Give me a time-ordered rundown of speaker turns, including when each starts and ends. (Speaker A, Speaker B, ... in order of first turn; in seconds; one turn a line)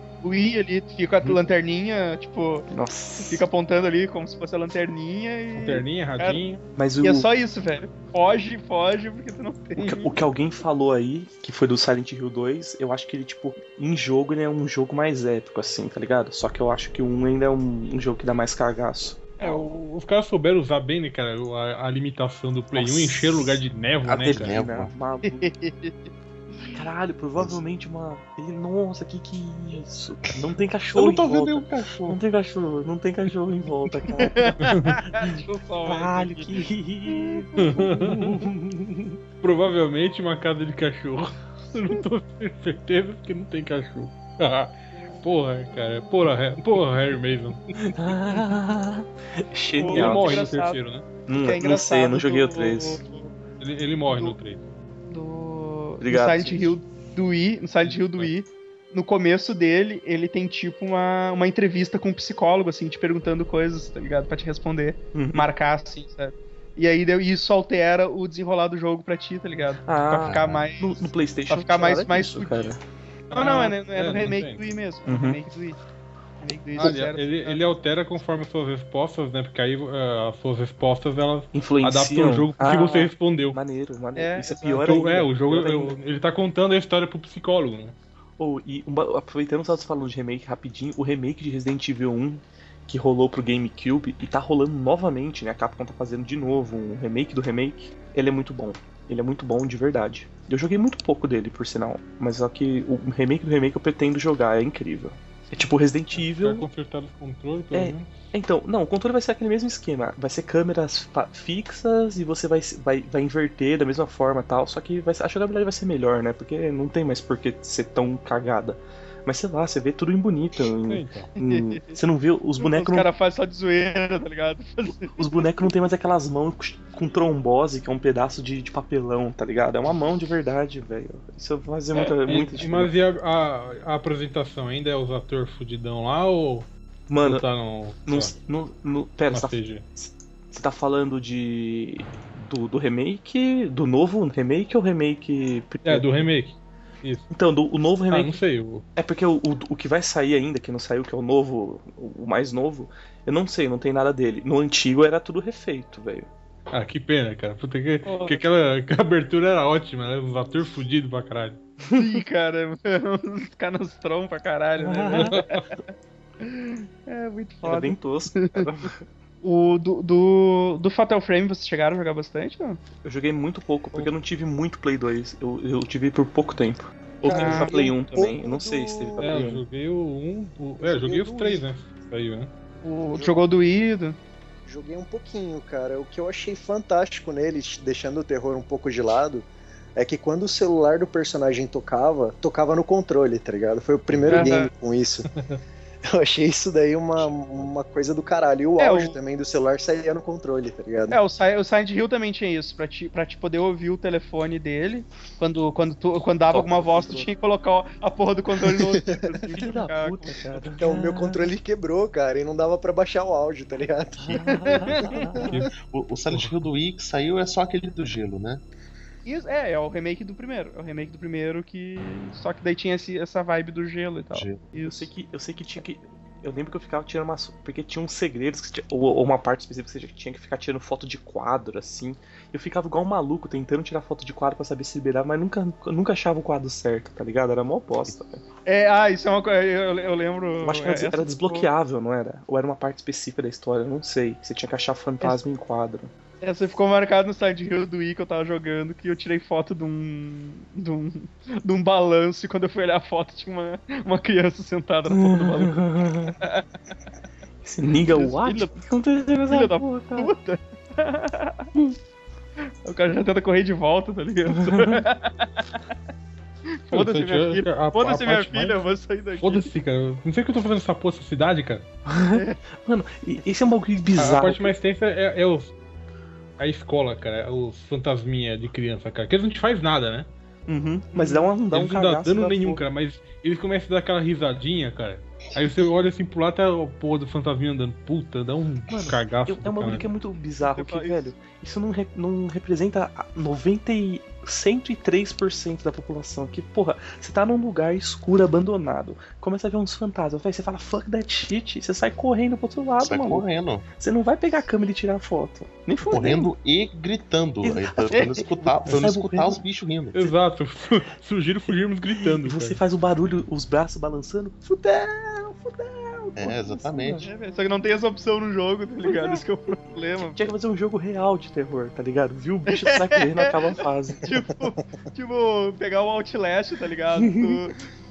Speaker A: 0.2-6.4
Speaker B: 2.7-3.5
Speaker C: 5.5-6.6
Speaker B: 6.8-7.3
Speaker A: 7.0-10.2
Speaker B: 9.8-19.2
Speaker A: 19.4-19.7
Speaker C: 19.4-24.6
Speaker B: 22.8-23.6
Speaker D: 24.1-24.9
Speaker B: 24.2-25.5
Speaker A: 25.3-26.8
Speaker B: 26.7-39.2
Speaker D: 30.9-32.2
Speaker A: 34.1-36.5
Speaker C: 34.6-35.0
Speaker A: 37.1-37.8
Speaker C: 37.6-38.5
Speaker C: 39.4-47.7
Speaker B: 47.8-50.5
Speaker A: 49.8-50.8
Speaker C: 49.9-51.1
Speaker B: 51.3-53.0
Speaker A: 51.3-53.3
Speaker C: 53.6-54.6
Speaker A: 55.1-72.7
Speaker B: 56.0-56.8
Speaker C: 57.8-58.3
Speaker B: 65.1-65.5
Speaker B: 69.8-72.8
Speaker D: 70.2-70.7
Speaker C: 73.3-74.6
Speaker A: 73.3-75.8
Speaker B: 75.1-75.4
Speaker A: 76.4-77.6
Speaker C: 76.8-83.6
Speaker B: 81.5-86.0
Speaker A: 84.2-84.9
Speaker C: 84.8-88.0
Speaker B: 88.4-106.7
Speaker C: 106.1-108.1
Speaker B: 107.7-123.1
Speaker C: 120.9-121.3
Speaker A: 121.4-122.0
Speaker A: 122.6-125.5
Speaker B: 125.1-132.9
Speaker C: 132.0-136.7
Speaker B: 137.1-137.4
Speaker C: 137.2-138.3
Speaker B: 138.1-146.1
Speaker C: 139.3-139.8
Speaker C: 145.8-147.3
Speaker B: 147.3-148.4
Speaker C: 148.1-148.8
Speaker B: 149.0-156.3
Speaker C: 156.7-161.6
Speaker A: 158.1-158.4
Speaker A: 161.9-165.8
Speaker B: 164.9-165.4
Speaker C: 164.9-165.7
Speaker A: 166.4-168.7
Speaker B: 167.6-169.0
Speaker A: 169.4-172.8
Speaker B: 173.0-179.7
Speaker E: 177.2-179.4
Speaker C: 177.3-177.7
Speaker A: 177.3-177.8
Speaker C: 179.2-182.5
Speaker E: 180.8-181.6
Speaker A: 182.8-184.2
Speaker E: 184.7-195.3
Speaker D: 194.1-194.5
Speaker A: 194.3-194.7
Speaker E: 196.1-201.2
Speaker D: 197.1-197.7
Speaker A: 198.8-199.2
Speaker A: 201.1-210.8
Speaker B: 206.5-207.3
Speaker E: 208.6-209.6
Speaker B: 209.5-211.6
Speaker E: 210.8-215.5
Speaker B: 214.2-215.6
Speaker A: 214.5-215.5
Speaker C: 215.4-215.7
Speaker D: 215.8-218.6
Speaker C: 216.3-216.6
Speaker A: 219.2-225.1
Speaker D: 224.3-224.7
Speaker B: 224.8-238.4
Speaker A: 238.7-241.7
Speaker B: 240.6-246.1
Speaker A: 246.4-256.7
Speaker B: 255.1-256.4
Speaker B: 257.6-260.3
Speaker A: 258.0-258.8
Speaker A: 259.5-261.7
Speaker A: 262.9-265.8
Speaker B: 264.5-265.0
Speaker A: 266.9-269.7
Speaker C: 266.9-268.8
Speaker C: 269.4-271.9
Speaker B: 272.1-274.7
Speaker A: 272.3-272.6
Speaker C: 274.2-275.7
Speaker C: 276.6-280.3
Speaker B: 280.7-282.8
Speaker A: 281.1-281.5
Speaker C: 281.7-290.1
Speaker B: 288.9-303.4
Speaker A: 290.6-291.3
Speaker D: 303.0-303.9
Speaker B: 304.0-306.5
Speaker D: 306.1-310.3
Speaker B: 307.6-309.6
Speaker C: 310.1-312.8
Speaker B: 311.7-317.3
Speaker D: 316.4-317.3
Speaker A: 317.2-320.5
Speaker B: 319.1-319.4
Speaker B: 320.2-324.3
Speaker A: 322.7-327.8
Speaker B: 327.2-327.6